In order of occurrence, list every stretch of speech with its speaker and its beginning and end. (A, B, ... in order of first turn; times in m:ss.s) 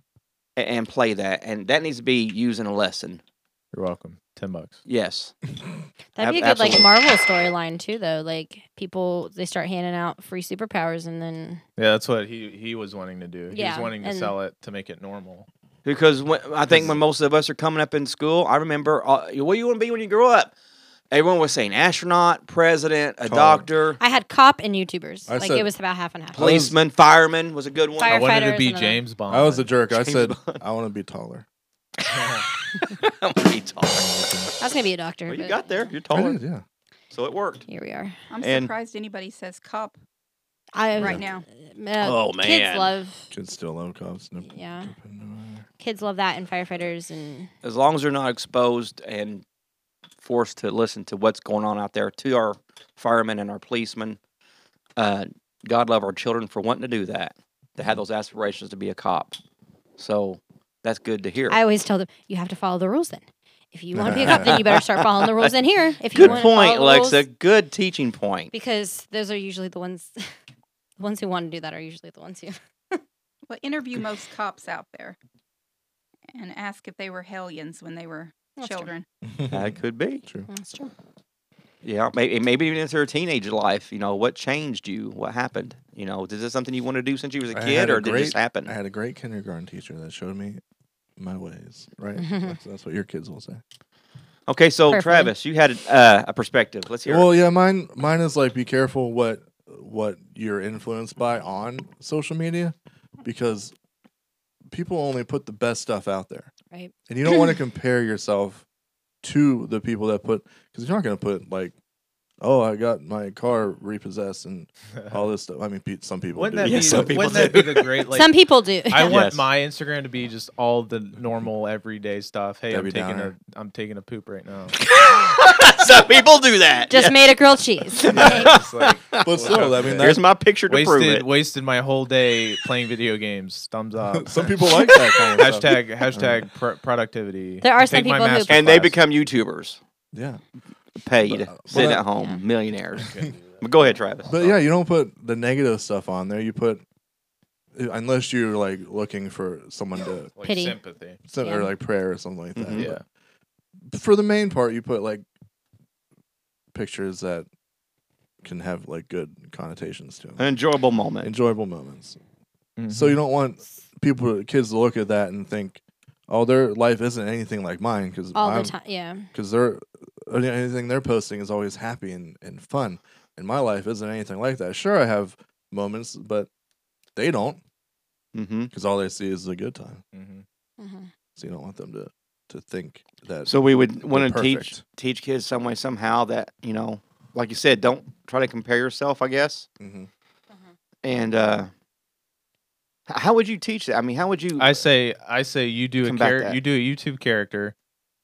0:00.6-0:03.2 A
0:03.7-0:04.8 B
0:04.9-0:05.4 A
0:06.2-0:11.6 C
0:06.2-0:06.9 A
0:11.8-0:15.5 B
0:13.5-0:14.3 C
0:15.8-0:20.5 A
0:16.7-0:17.0 D
0:21.1-0:24.0 A
0:23.2-0:23.7 D
0:24.0-0:26.4 C
0:25.3-0:25.7 D
0:26.3-0:26.8 D
0:26.4-0:28.2 A
0:28.0-0:29.0 C
0:28.1-0:29.7 B
0:29.3-0:31.4 D
0:29.9-0:30.6 A
0:32.1-0:32.4 B
0:32.8-0:34.1 A
0:33.9-0:34.5 D
0:34.6-0:35.9 C
0:35.3-0:36.4 A
0:36.1-0:36.6 D
0:37.1-0:37.6 A
0:37.7-0:38.2 C
0:38.3-0:40.0 E
0:38.4-0:38.7 A
0:40.7-0:43.3 C
0:41.0-0:41.2 D
0:41.0-0:41.4 E
0:42.0-0:42.9 A
0:43.3-0:45.6 D
0:44.4-0:44.9 C
0:45.8-0:47.5 C
0:47.6-0:49.4 A
0:50.2-0:54.2 A
0:55.0-0:59.4 A
1:00.0-1:01.6 A
1:01.5-1:07.2 C
1:03.9-1:04.6 D
1:04.1-1:05.5 A
1:06.1-1:08.5 A
1:08.5-1:10.1 C
1:11.0-1:13.0 C
1:13.5-1:15.2 E
1:16.3-1:19.0 E
1:18.6-1:18.9 C
1:19.2-1:20.5 D
1:19.5-1:20.2 A
1:20.5-1:20.9 C
1:21.8-1:28.7 A
1:27.5-1:30.6 D
1:31.2-1:33.6 D
1:32.2-1:32.6 C
1:34.5-1:37.3 A
1:34.9-1:35.3 C
1:37.0-1:43.7 D
1:44.7-1:46.5 D
1:46.7-1:47.5 C
1:47.1-1:48.6 D
1:49.2-1:51.7 D
1:52.4-1:57.6 D
1:56.4-1:58.4 B
1:56.6-1:57.9 A
1:58.1-1:59.1 C
1:58.9-2:04.8 B
1:59.0-1:59.4 A
2:02.7-2:03.3 D
2:04.8-2:07.2 A
2:06.9-2:08.5 C
2:08.0-2:11.2 A
2:08.1-2:14.5 B
2:08.1-2:08.5 D
2:09.2-2:10.2 D
2:14.1-2:16.4 D
2:15.4-2:19.0 B
2:17.6-2:18.6 C
2:18.5-2:19.8 A
2:20.1-2:20.4 D
2:21.0-2:24.6 A
2:21.2-2:22.0 D
2:22.2-2:22.4 C
2:23.1-2:24.0 B
2:24.3-2:26.8 D
2:27.7-2:30.3 D
2:30.4-2:31.2 B
2:30.4-2:30.8 C
2:31.3-2:33.0 D
2:31.4-2:31.7 C
2:32.5-2:32.9 A
2:32.8-2:33.0 B
2:33.9-2:35.2 D
2:36.7-2:37.5 D
2:38.4-2:40.4 D
2:40.4-2:41.3 A
2:41.2-2:42.2 D
2:42.8-2:43.2 B
2:42.9-2:48.7 D
2:48.3-2:49.3 C
2:49.3-2:56.5 D
2:57.2-2:57.6 D
2:58.3-2:58.7 A
2:58.7-3:00.0 D
3:00.1-3:00.4 B
3:00.8-3:01.1 C
3:01.4-3:04.8 D
3:03.5-3:09.7 A
3:09.8-3:10.1 D
3:11.0-3:11.7 A
3:13.1-3:14.8 A
3:14.6-3:17.7 B
3:16.0-3:16.6 A